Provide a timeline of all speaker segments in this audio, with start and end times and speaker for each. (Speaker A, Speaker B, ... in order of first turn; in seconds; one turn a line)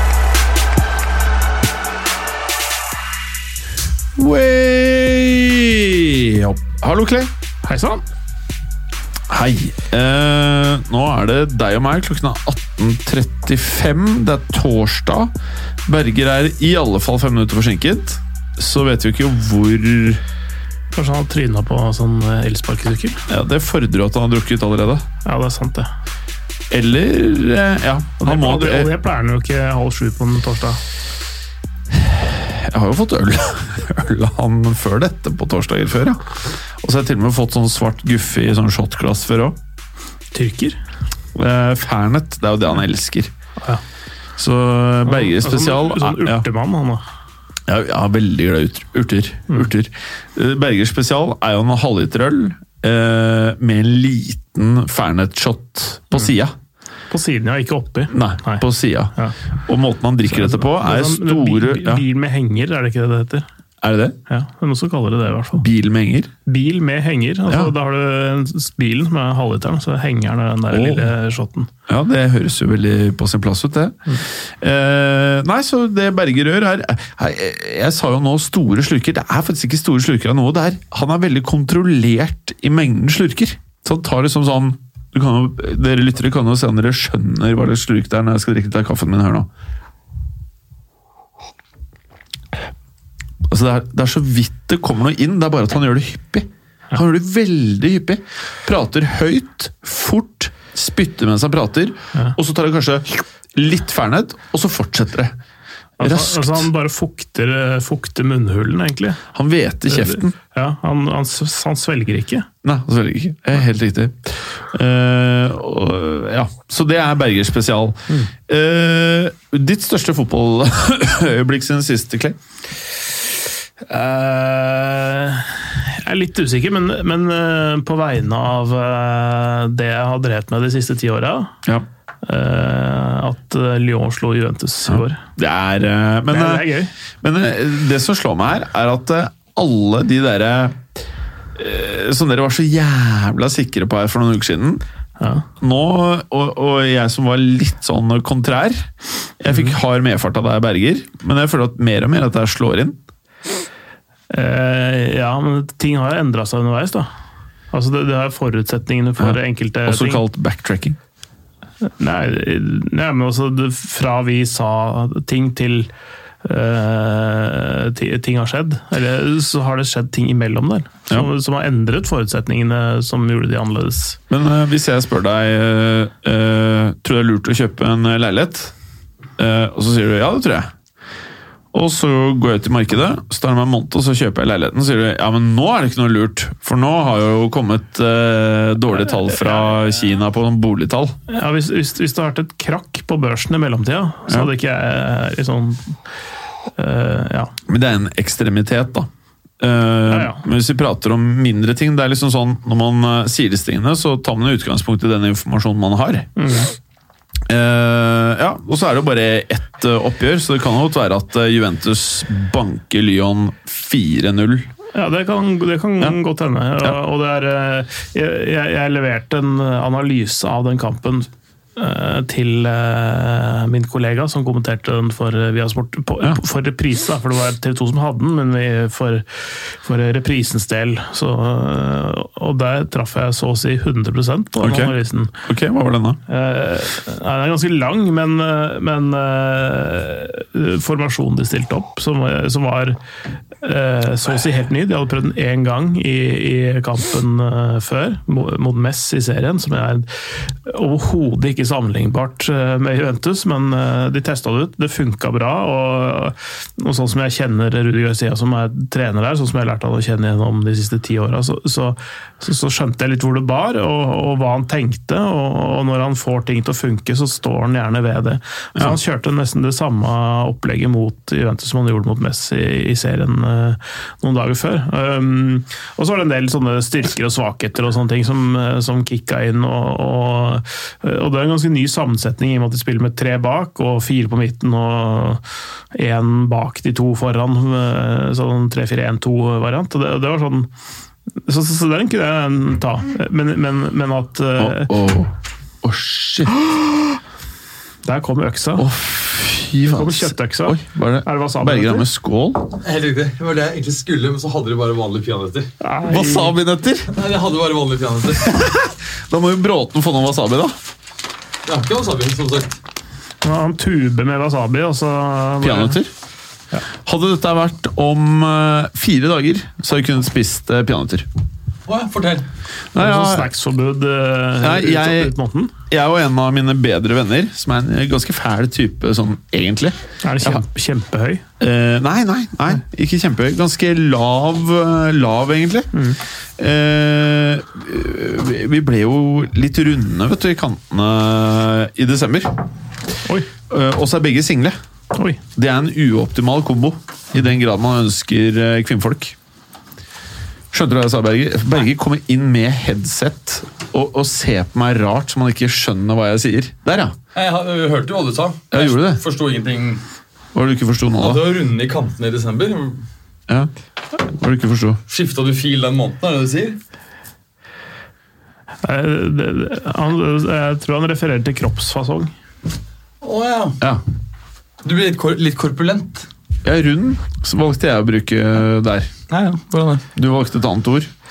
Speaker A: 4.2-7.3
Speaker B: 7.6-8.0
Speaker A: 9.3-15.3
Speaker A: 15.9-20.2
Speaker B: 20.9-23.2
Speaker A: 23.3-25.1
Speaker B: 25.2-25.9
Speaker A: 26.7-28.9
Speaker B: 28.2-30.8
Speaker A: 31.9-39.6
Speaker B: 40.3-40.8
Speaker A: 41.4-43.3
Speaker A: 44.4-46.5
Speaker B: 45.0-47.0
Speaker A: 47.7-56.5
Speaker B: 57.1-58.6
Speaker A: 58.1-59.1
Speaker A: 59.7-62.0
Speaker B: 60.3-63.5
Speaker A: 63.8-64.2
Speaker B: 64.3-65.7
Speaker A: 65.6-66.3
Speaker B: 66.5-71.7
Speaker A: 70.7-71.1
Speaker A: 71.9-89.5
Speaker A: 93.5-105.3
Speaker B: 106.0-109.2
Speaker A: 106.0-106.7
Speaker A: 109.3-110.3
Speaker B: 109.9-112.5
Speaker A: 112.6-122.4
Speaker B: 123.8-131.6
Speaker B: 132.2-135.2
Speaker A: 134.9-136.7
Speaker B: 136.3-136.9
Speaker A: 137.2-140.8
Speaker A: 141.6-144.8
Speaker B: 145.2-145.5
Speaker A: 145.6-148.9
Speaker A: 149.4-153.0
Speaker B: 154.3-157.1
Speaker B: 157.7-160.2
Speaker A: 159.2-161.0
Speaker B: 161.8-165.9
Speaker B: 166.4-174.2
Speaker A: 174.3-178.7
Speaker A: 179.4-180.7
Speaker A: 181.7-191.2
Speaker B: 191.3-195.9
Speaker B: 196.8-197.5
Speaker A: 197.7-199.1
Speaker A: 199.6-206.3
Speaker B: 200.1-200.4
Speaker B: 206.4-206.7
Speaker A: 207.5-214.7
Speaker B: 214.9-235.3
Speaker A: 234.6-236.2
Speaker B: 236.3-243.0
Speaker B: 243.6-285.4
Speaker B: 285.9-290.7
Speaker B: 291.5-294.9
Speaker A: 294.6-295.3
Speaker A: 295.8-296.5
Speaker B: 298.1-298.9
Speaker A: 298.8-302.7
Speaker B: 299.9-302.1
Speaker C: 302.8-305.7
Speaker B: 305.8-306.5
Speaker A: 306.1-307.1
Speaker C: 307.1-308.5
Speaker A: 308.4-310.8
Speaker C: 311.7-312.8
Speaker B: 313.4-316.0
Speaker A: 315.6-316.1
Speaker A: 317.1-321.3
Speaker C: 321.9-322.5
Speaker A: 322.9-323.5
Speaker B: 323.0-325.7
Speaker A: 324.6-325.3
Speaker A: 325.9-330.6
Speaker B: 330.2-331.4
Speaker A: 331.6-335.9
Speaker A: 336.6-342.6
Speaker A: 343.7-344.8
Speaker B: 345.1-345.4
Speaker A: 345.6-349.4
Speaker A: 350.7-357.1
Speaker C: 357.3-360.0
Speaker A: 358.7-359.2
Speaker A: 360.5-361.4
Speaker C: 361.2-363.1
Speaker A: 363.5-365.0
Speaker C: 365.1-366.8
Speaker B: 368.8-372.3
Speaker C: 373.2-373.8
Speaker C: 374.8-376.3
Speaker A: 376.6-379.1
Speaker C: 379.3-380.1
Speaker A: 380.2-381.1